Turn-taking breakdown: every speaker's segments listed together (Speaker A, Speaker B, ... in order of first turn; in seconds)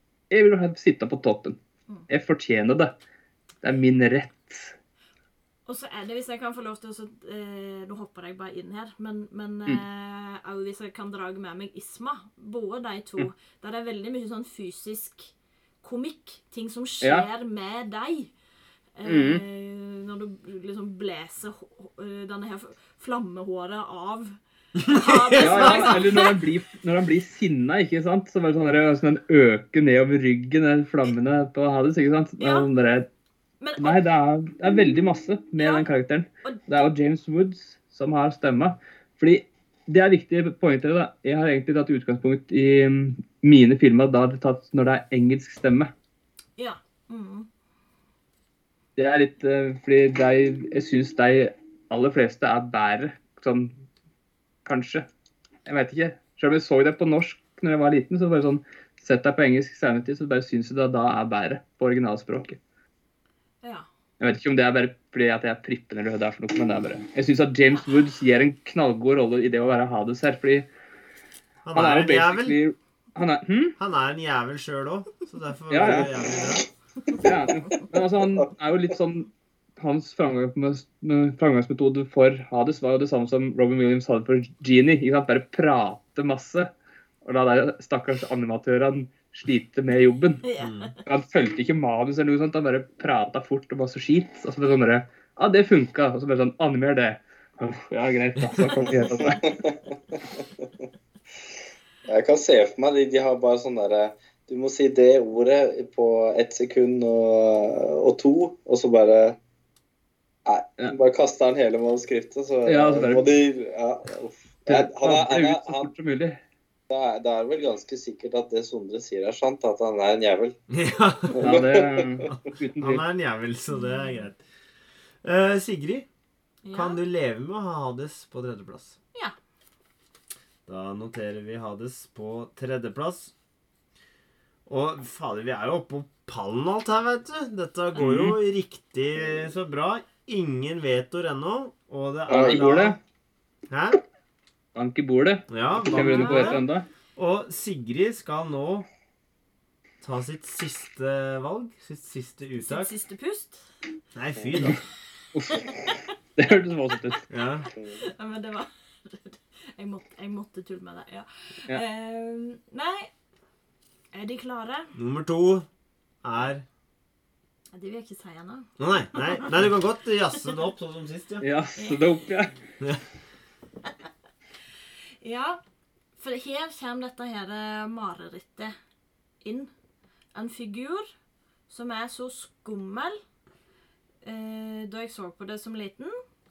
Speaker A: 0.3-1.6, 2.1-3.0, 3.6-4.7, 17.0-17.3, 19.1-19.4, 25.4-33.1, 33.8-45.9, 49.0-53.7, 54.6-55.0, 55.6-62.6, 64.2-70.7, 71.7-73.8, 75.7-76.1, 77.2-86.7, 87.2-90.5, 91.0-99.5, 112.7-113.2, 114.7-116.4, 121.4-123.0, 138.0-138.4, 142.3-143.0, 144.7-146.9, 155.3-155.7, 156.4-157.2, 171.4-172.6
Speaker B: 5.7-18.3, 18.9-26.4, 32.4-32.7, 33.6-34.0, 35.6-35.9, 46.6-47.5, 90.5-91.0, 123.7-124.3, 126.6-127.0, 145.9-146.7, 152.6-153.7, 155.5-156.1, 157.8-163.1, 164.1-164.9, 167.7-169.5, 171.8-172.2, 175.2-175.6, 176.2-178.7, 179.4-179.7, 180.3-181.1, 181.7-183.2, 184.2-186.2
Speaker C: 24.8-26.0, 71.7-72.6, 73.8-76.7, 90.6-91.0, 120.7-121.4, 122.3-124.4, 125.2-126.1, 126.7-128.9, 130.7-133.3, 134.7-143.0, 143.7-144.0, 145.5-146.6, 147.2-148.9, 150.0-152.9, 154.1-154.8, 157.3-157.7, 164.9-165.7, 166.2-166.6, 168.8-171.4
Speaker D: 75.8-76.1, 99.2-100.7, 102.1-109.4, 110.5-115.9, 116.9-120.6, 121.3-122.3, 142.3-142.6, 154.4-154.7, 157.7-158.0